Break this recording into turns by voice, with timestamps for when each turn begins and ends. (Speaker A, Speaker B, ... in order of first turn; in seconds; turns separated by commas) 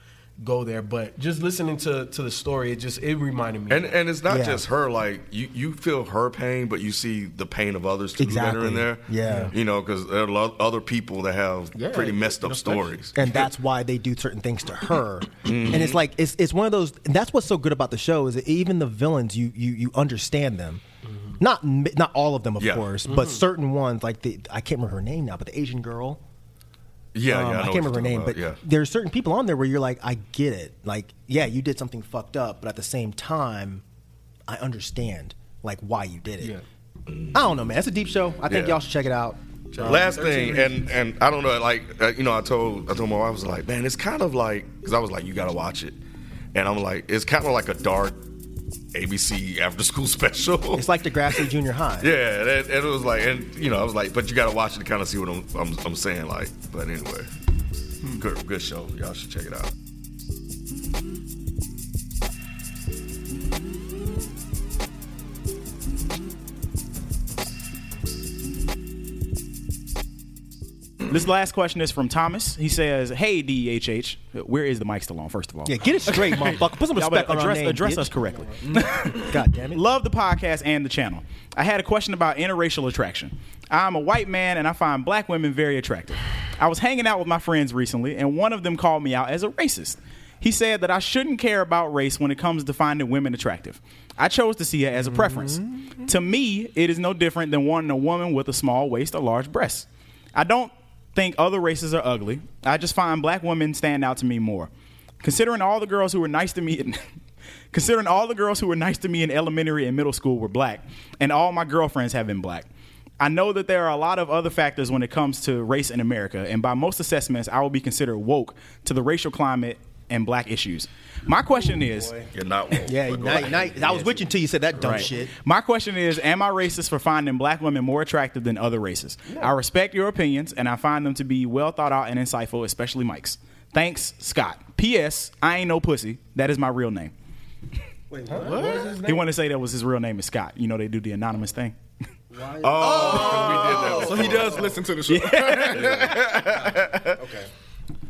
Speaker A: 0.4-4.0, Speaker B: 3.7-13.5, Speaker C: 4.3-4.6, Speaker C: 8.2-9.5, Speaker A: 9.2-9.5, Speaker A: 11.8-13.0, Speaker C: 13.1-20.8, Speaker B: 15.4-16.0, Speaker A: 21.1-21.3, Speaker C: 21.4-26.2, Speaker B: 22.6-22.9, Speaker A: 23.1-23.4, Speaker B: 27.1-28.6, Speaker C: 27.2-33.8, Speaker C: 34.5-36.5, Speaker B: 37.1-37.4, Speaker C: 37.3-39.4, Speaker B: 38.5-38.8, Speaker B: 39.7-46.0, Speaker A: 39.7-40.8, Speaker B: 46.5-48.2, Speaker B: 48.9-50.9, Speaker C: 50.7-52.1, Speaker B: 52.0-57.3, Speaker B: 58.1-59.7, Speaker D: 71.1-104.7, Speaker C: 75.6-78.2, Speaker E: 78.6-79.0, Speaker C: 78.7-79.8, Speaker C: 95.3-95.7, Speaker D: 105.2-107.0, Speaker D: 107.7-112.7, Speaker D: 113.2-122.3, Speaker B: 122.3-124.1, Speaker C: 122.8-125.3, Speaker D: 124.8-137.1, Speaker C: 138.1-138.9, Speaker A: 138.3-139.3, Speaker E: 138.4-138.9, Speaker D: 139.0-141.8, Speaker C: 142.3-143.1, Speaker A: 142.5-144.8, Speaker B: 142.6-144.7, Speaker E: 142.8-147.2, Speaker D: 145.1-146.3, Speaker A: 146.5-147.5